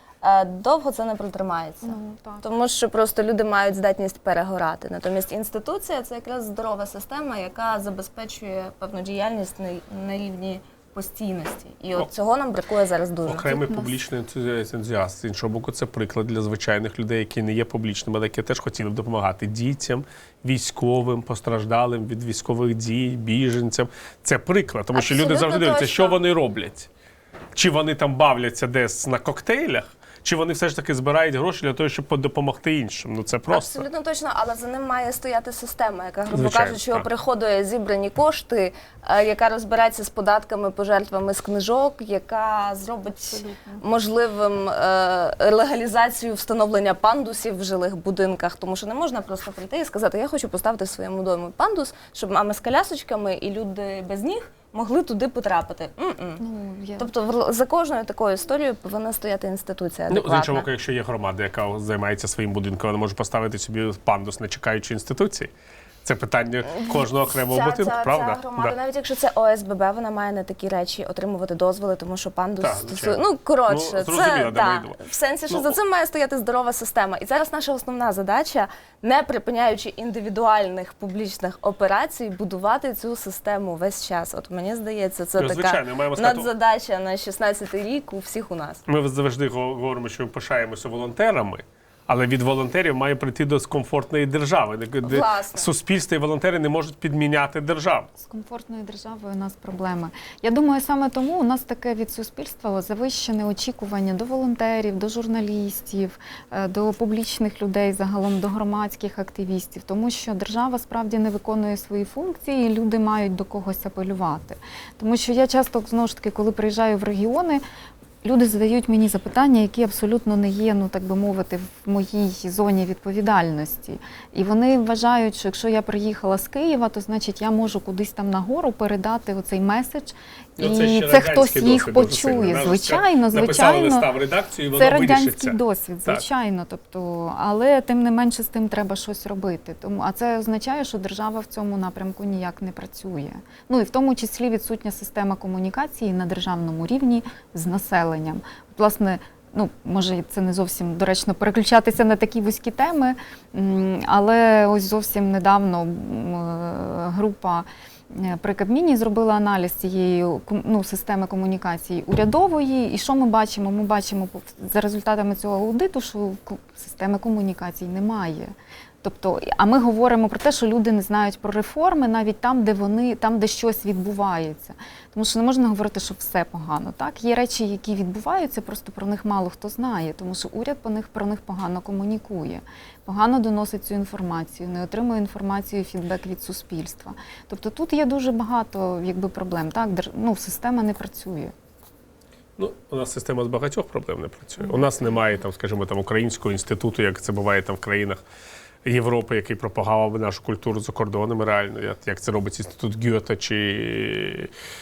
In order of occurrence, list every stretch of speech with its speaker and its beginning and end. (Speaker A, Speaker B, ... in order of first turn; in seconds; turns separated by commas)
Speaker A: 0.2-13.5, Speaker B: 1.8-2.5, Speaker C: 13.3-26.9, Speaker B: 13.4-14.0, Speaker A: 24.9-26.2, Speaker C: 27.6-33.9, Speaker A: 33.5-56.4, Speaker C: 36.3-37.1, Speaker B: 43.1-43.8, Speaker B: 56.4-57.1, Speaker A: 57.0-60.7, Speaker C: 60.1-65.5, Speaker C: 66.0-68.8, Speaker A: 66.7-88.8, Speaker C: 72.6-75.8, Speaker C: 85.4-86.5, Speaker C: 88.9-98.1, Speaker A: 95.0-95.7, Speaker B: 98.2-117.6, Speaker B: 118.2-134.1, Speaker C: 130.6-136.2, Speaker B: 134.7-191.5, Speaker C: 192.6-198.2, Speaker B: 194.6-195.1, Speaker C: 198.8-204.5